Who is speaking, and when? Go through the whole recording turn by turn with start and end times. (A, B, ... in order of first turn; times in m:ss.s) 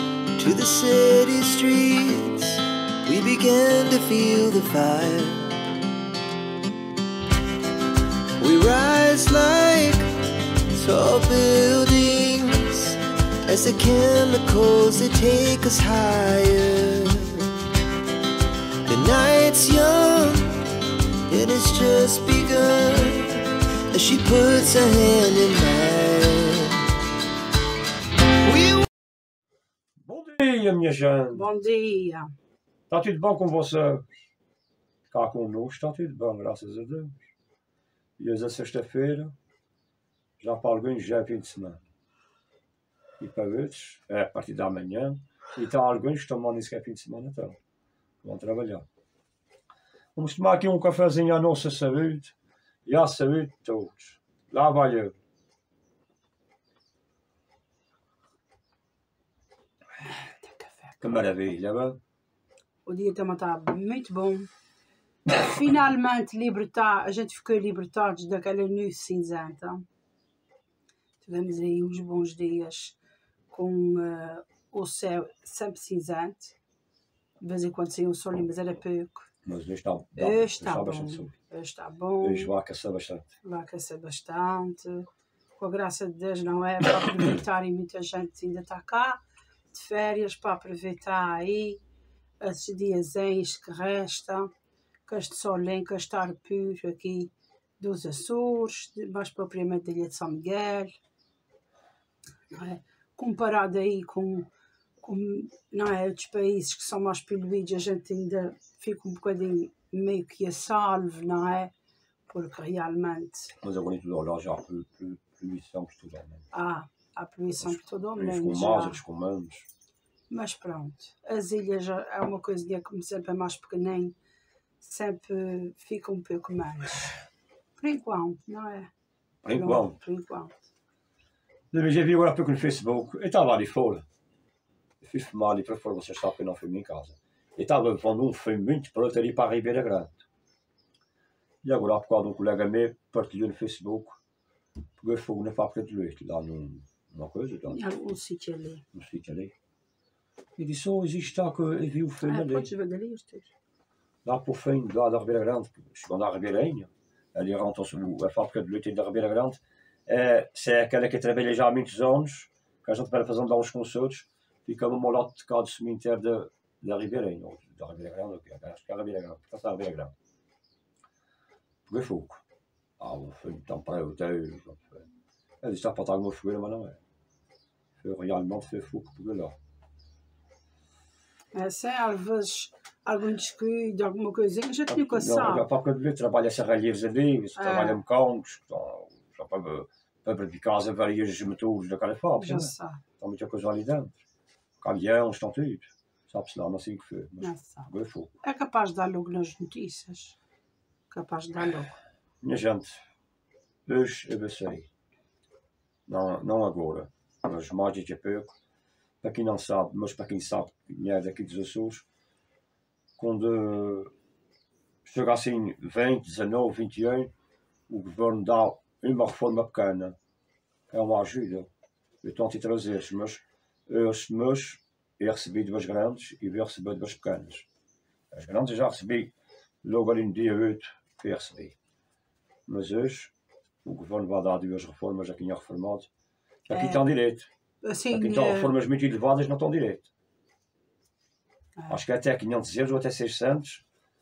0:00.4-0:05.5 A
0:08.4-0:10.1 A
0:10.7-0:17.5 A
0:18.8-0:20.5 A
0:21.3-0:26.9 A
0:28.4-0:28.8 A
0:30.0-0:31.5 B
0:31.3-0:32.3 C
0:32.9-0:34.1 B
0:35.1-0:37.2 B
0:38.2-0:39.3 B
0:40.4-0:41.8 B
0:43.2-0:47.6 B
0:48.2-0:48.8 B
0:50.1-0:52.3 B
0:52.8-0:55.1 B
1:00.2-1:00.9 C
1:01.0-1:02.0 B
1:02.8-1:04.5 C
1:05.3-1:09.8 C
1:11.2-1:13.0 C
1:13.5-1:16.6 C
1:17.4-1:19.3 C
1:19.4-1:21.3 B
1:20.2-1:22.5 C
1:22.2-1:23.3 B
1:23.4-1:25.1 C
1:25.6-1:29.2 C
1:29.7-1:31.8 C
1:32.4-1:34.5 C
1:35.0-1:40.9 C
1:42.5-1:44.5 C
1:45.0-1:51.7 C
1:52.3-1:53.5 C
1:53.6-1:56.4 B
1:56.5-1:59.0 C
1:57.6-1:59.6 B
2:00.3-2:04.2 C
2:04.8-2:07.1 C
2:07.8-2:08.9 C
2:09.4-2:10.0 B
2:09.5-2:10.6 C
2:11.7-2:14.0 B
2:15.0-2:20.2 B
2:21.6-2:24.2 B
2:25.0-2:27.8 B
2:27.7-2:28.8 C
2:28.9-2:29.5 B
2:30.6-2:32.7 B
2:32.2-2:33.5 C
2:34.2-2:50.1 B
2:51.8-2:52.4 B
2:53.0-2:55.1 B
2:55.6-2:57.0 B
2:58.0-2:59.5 B
3:01.5-3:05.6 C
3:04.9-3:14.2 B
3:07.6-3:08.0 C
3:12.3-3:13.0 C
3:14.8-3:18.3 B
3:17.4-3:17.9 C
3:18.4-3:20.4 C
3:21.1-3:21.9 C
3:22.4-3:23.0 B
3:23.8-3:24.9 B
3:26.1-3:28.5 B
3:29.2-3:32.0 B
3:33.2-3:34.1 B
3:35.0-3:37.3 B
3:37.9-3:40.2 B
3:40.9-3:41.7 B
3:42.2-3:47.7 B
3:48.3-3:51.8 B
3:52.7-3:53.3 B
3:53.8-3:56.1 B
3:56.7-3:57.5 B
3:56.7-3:57.0 C
3:57.8-3:58.7 C
3:58.1-4:00.1 B
4:01.9-4:03.8 B